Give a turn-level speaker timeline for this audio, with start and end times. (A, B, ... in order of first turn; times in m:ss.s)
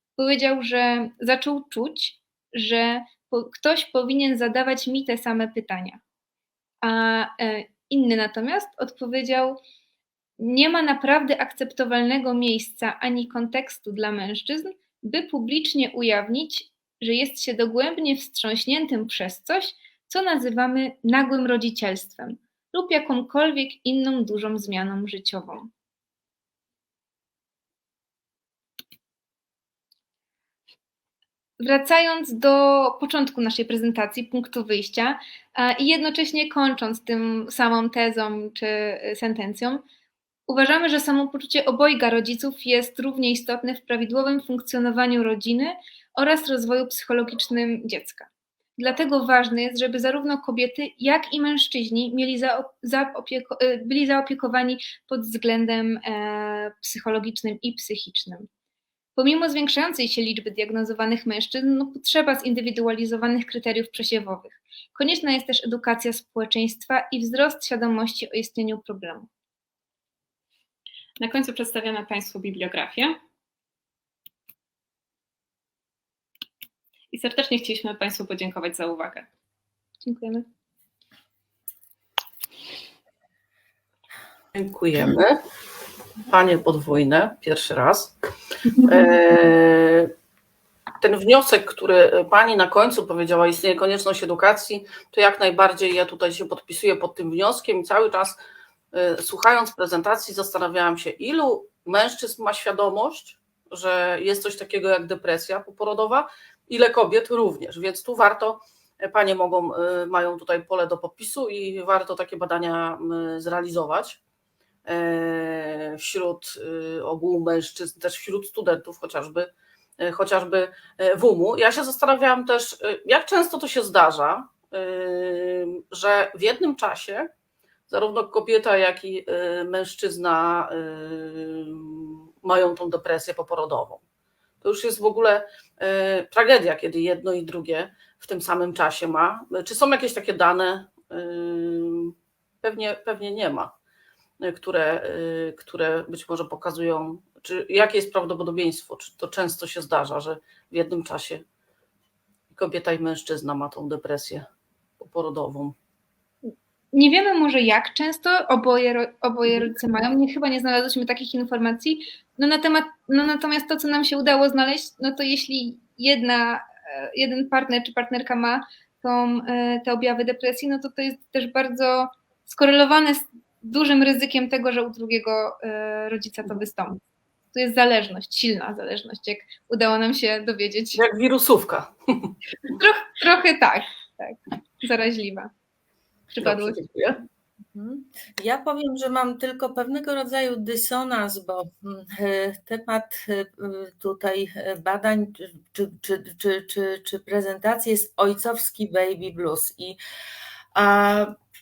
0:00.2-0:06.0 A
0:06.8-0:09.6 A
0:10.4-0:25.7 A
0:31.6-0:39.8 A
0:40.5-0:58.4 A
0:59.2-1:09.3 A
1:11.2-1:13.1 B
1:17.1-1:19.2 B
1:20.0-1:20.4 A
1:24.5-1:25.4 C
1:26.3-1:28.1 C
1:28.8-1:30.1 C
1:31.0-1:38.4 C
1:38.9-1:54.2 C
1:54.8-2:07.3 C
2:07.9-2:14.0 C
2:14.6-2:23.7 C
2:24.4-2:31.4 C
2:32.5-2:34.5 C
2:35.0-2:35.7 C
2:36.4-2:57.0 A
2:57.5-3:01.0 A
3:00.9-3:02.3 C
3:02.8-3:05.5 A
3:06.3-3:06.8 A
3:06.4-3:07.2 C
3:07.7-3:20.0 D
3:20.7-3:21.3 D